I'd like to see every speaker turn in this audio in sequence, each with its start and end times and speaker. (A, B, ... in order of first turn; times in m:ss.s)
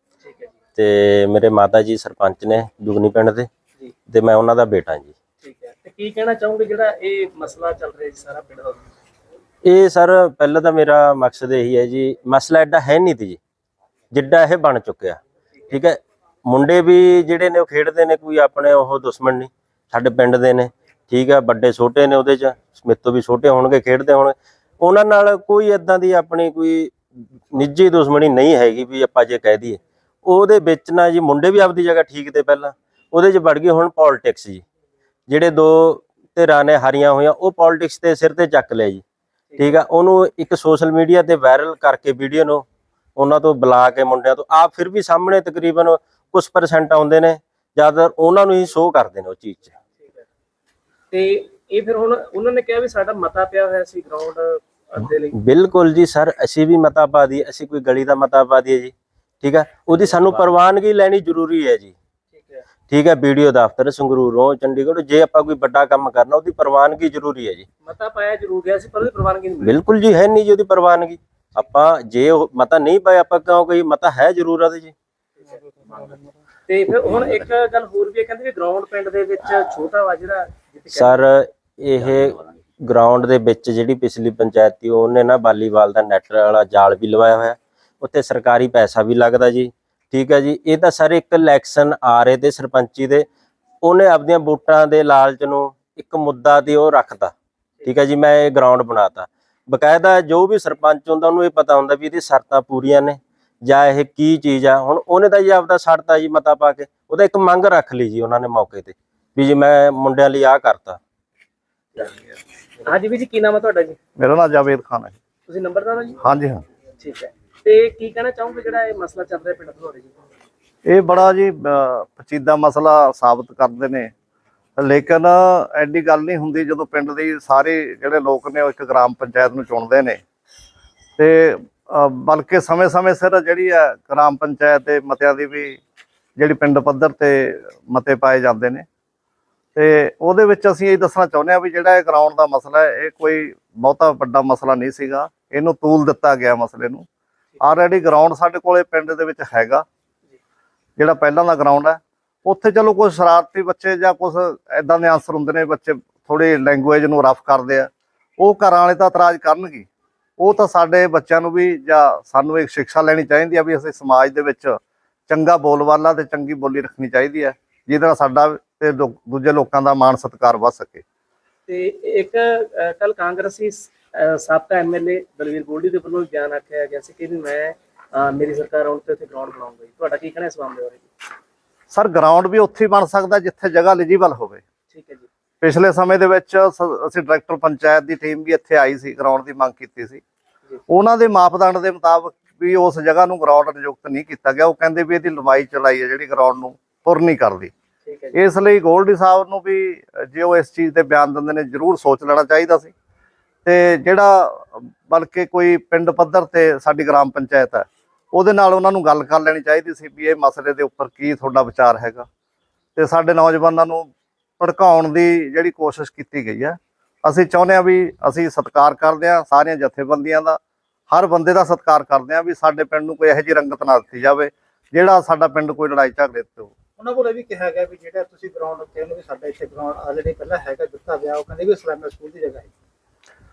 0:00.2-0:00.5 A
0:00.8-0:03.5 B
0:04.1-0:05.1 B
0:05.4-0:08.8 A
0:09.6-0:13.4 B
0:14.1-0:15.2 B
0:15.7-0:27.0 B
0:27.5-0:34.6 B
0:35.3-0:39.0 B
0:39.5-0:39.8 A
0:39.6-0:42.6 B
0:43.2-0:49.7 B
0:50.0-0:50.2 A
0:51.1-0:55.4 A
0:55.3-1:01.9 B
0:59.9-1:00.4 A
1:02.3-1:02.6 A
1:02.9-1:07.7 B
1:07.8-1:09.8 A
1:09.6-1:14.9 B
1:15.4-1:16.1 A
1:16.7-1:21.2 A
1:20.9-1:33.2 B
1:33.8-1:37.3 B
1:37.8-1:51.0 B
1:52.8-1:54.0 A
1:54.2-1:55.2 C
1:55.5-1:56.2 A
1:56.2-1:56.6 C
1:57.0-2:00.1 A
2:00.8-2:04.1 C
2:04.8-2:10.2 C
2:11.2-2:15.8 C
2:16.4-2:18.8 C
2:19.8-2:27.0 C
2:27.6-2:29.8 C
2:31.0-2:39.9 C
2:40.4-2:51.0 C
2:51.7-3:01.1 A
3:01.9-3:04.6 C
3:04.9-3:05.3 A
3:05.6-3:10.2 C
3:10.9-3:17.7 C
3:18.0-3:18.4 A
3:18.3-3:22.9 C
3:23.6-3:32.3 C
3:33.0-3:34.1 C
3:34.6-3:40.6 C
3:41.1-3:46.7 C
3:47.0-3:52.7 D